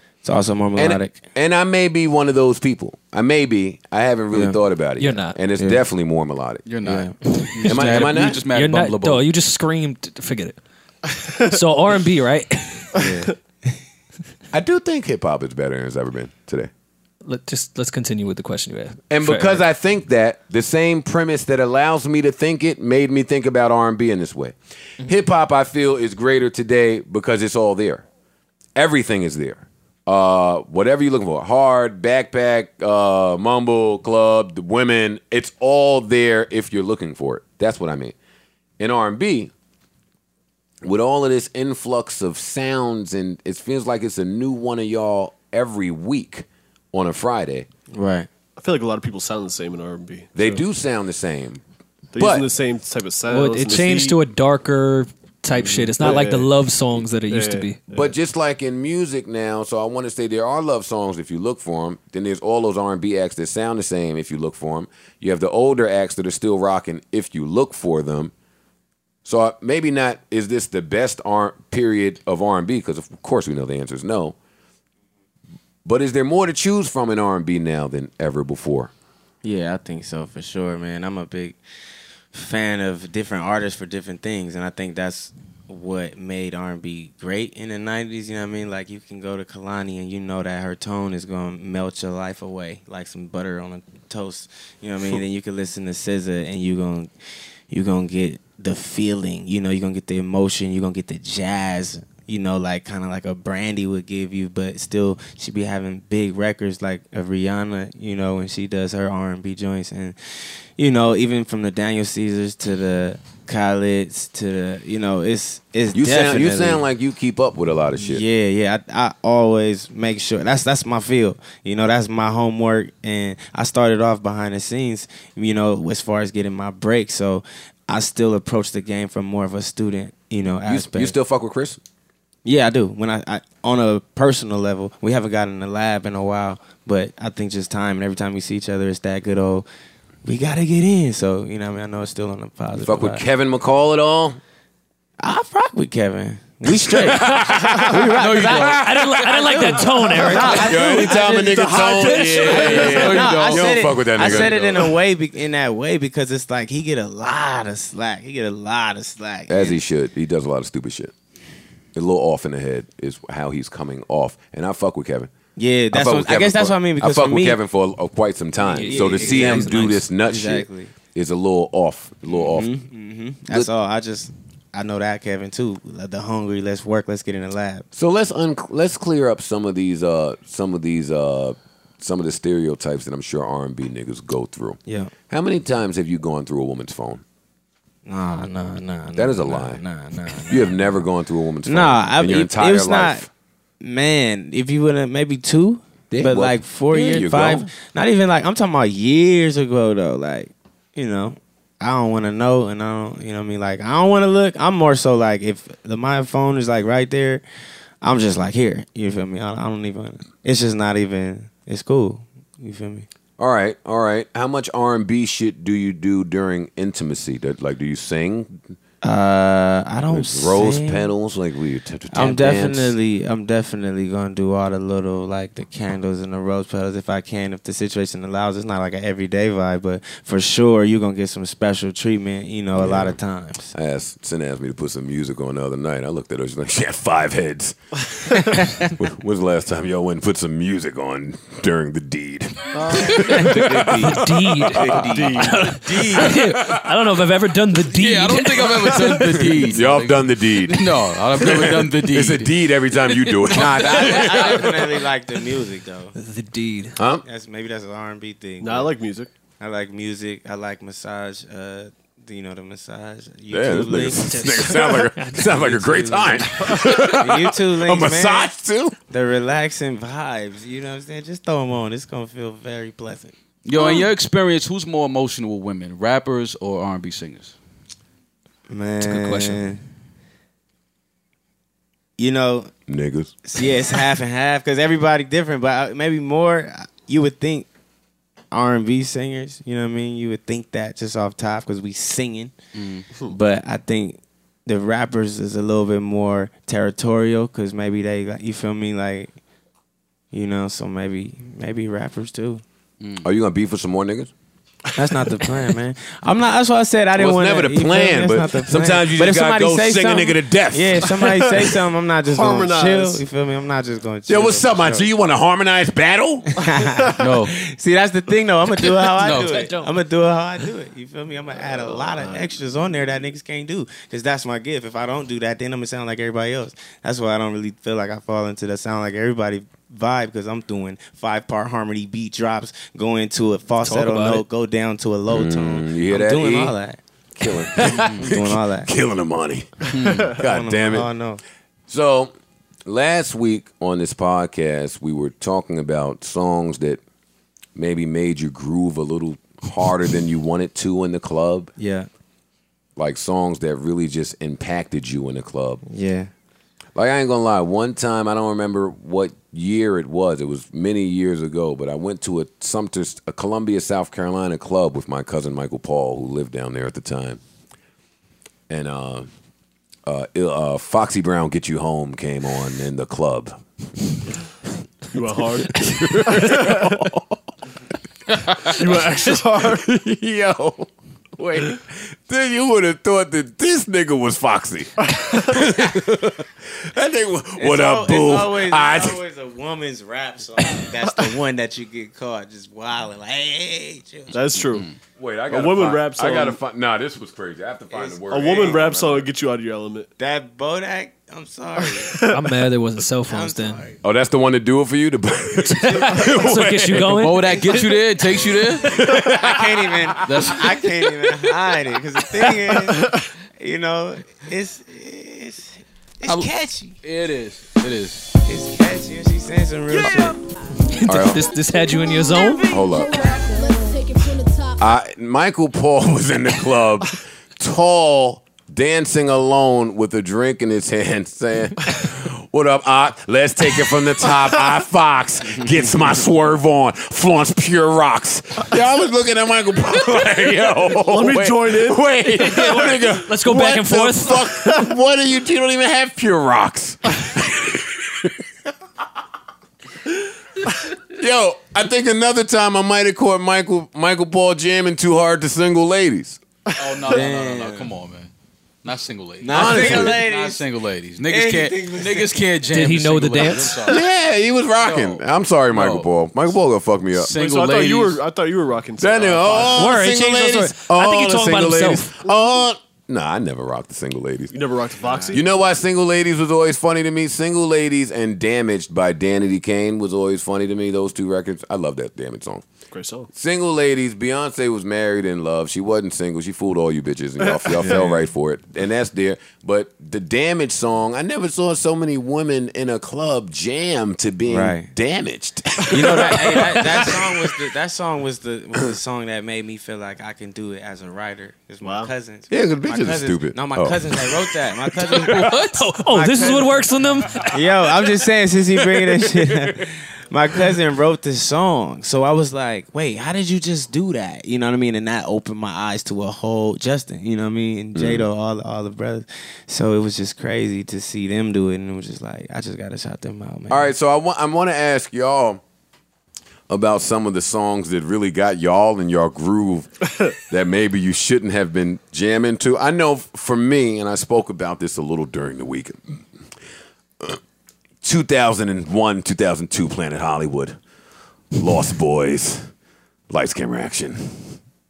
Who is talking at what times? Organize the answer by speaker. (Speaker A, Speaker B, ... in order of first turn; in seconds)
Speaker A: 0.2-1.2, 4.3-4.6, 5.6-5.8, 6.8-7.2, 12.9-13.3, 47.9-48.3, 79.4-81.6, 82.3-97.1, 97.7-116.8, 118.0-131.1, 132.4-139.7, 140.2-143.2, 145.2-148.8, 149.5-159.8, 165.6-167.6, 168.7-170.9, 172.3-177.9, 184.8-185.1, 188.1-191.0, 191.7-193.2, 193.8-207.4, 208.0-213.1, 219.0-221.1, 222.1-233.7, 238.5-238.9, 242.9-246.4, 253.5-256.1, 257.2-258.9, 259.6-264.5, 266.9-268.5, 269.1-273.9, 278.7-279.8, 282.2-282.7, 283.4-287.7, 288.5-292.5, 293.3-299.3, 300.3-302.6, 304.9-315.1, 316.5-337.0, 337.8-338.9, 340.4-341.4, 351.8-352.1, 355.9-356.3, 387.6-394.4, 397.9-398.8, 400.2-402.2, 403.2-404.0, 405.7-406.6, 407.4-408.0, 409.0-417.0, 418.4-420.4, 457.0-457.9, 459.4-460.6, 461.2-462.4, 475.0-475.4, 494.4-494.9, 495.9-506.9, 507.5-523.9
Speaker B: 0.8-6.6, 7.7-8.4, 14.5-16.7, 19.1-28.0, 28.8-38.1, 38.8-39.5, 40.8-47.7, 50.3-51.6, 52.1-52.5, 57.9-68.3, 69.2-74.3, 75.8-78.9, 115.9-118.2, 130.7-131.8, 142.8-144.4, 146.7-149.1, 150.3-155.0, 159.5-161.1, 161.9-165.3, 165.9-172.7, 177.9-187.2, 189.2-189.8, 190.5-193.3, 196.1-197.7, 213.4-218.6, 220.1-222.9, 232.8-233.2, 233.7-246.9, 249.3-254.7, 257.0-257.2, 263.5-269.0, 282.9-283.3, 303.2-304.3, 307.1-311.4, 314.3-316.5, 335.3-336.7, 337.4-341.1, 341.9-342.3, 342.9-347.0, 347.8-351.7, 352.9-355.8, 356.9-367.4, 368.7-369.3, 370.1-373.6, 375.6-377.4, 378.9-389.2, 395.2-399.3, 404.0-407.2, 408.8-410.4, 421.0-421.5, 422.7-423.1, 424.8-448.3, 451.0-456.4, 459.5-460.2, 463.9-467.3, 469.0-474.6, 475.3-482.6, 483.3-497.5, 502.5-504.5, 517.9-518.3, 523.7-525.6, 526.7-536.2, 538.0-540.8, 541.5-542.7, 543.3-544.6
Speaker C: 5.0-5.4, 7.3-10.6, 11.5-12.9, 17.2-19.6, 53.3-57.8, 148.7-153.3, 168.7-170.1, 243.9-249.7, 256.1-257.0, 264.3-267.0, 279.0-279.7, 319.3-319.9, 333.8-334.4, 402.3-403.8, 406.2-407.6, 420.0-422.7, 442.4-444.5, 462.7-463.9, 469.6-472.1, 505.5-507.6
Speaker D: 6.7-9.3, 147.9-149.7, 152.1-154.7, 247.9-254.9, 273.6-277.5, 292.7-293.1, 303.0-303.3, 317.2-317.6, 319.0-319.7, 337.9-338.2, 339.9-340.3, 378.3-378.8, 407.0-409.0, 410.2-410.9, 416.2-416.5, 417.0-418.2, 456.8-458.3, 458.8-464.0, 464.8-466.1, 467.1-468.2, 505.2-505.9
Speaker E: 48.6-50.6, 52.1-54.2, 56.0-56.5, 57.1-58.1, 242.8-243.1, 245.3-245.6, 258.6-259.3, 312.2-313.2, 321.7-322.6, 375.1-377.0, 378.7-379.9, 385.0-385.7, 394.3-394.9, 395.5-396.6, 398.3-400.1, 401.8-402.6, 412.7-413.3, 440.9-442.1, 456.7-457.0, 467.3-470.0, 474.5-475.4, 482.9-483.3, 487.5-488.2, 501.8-502.1
Speaker F: 421.7-424.9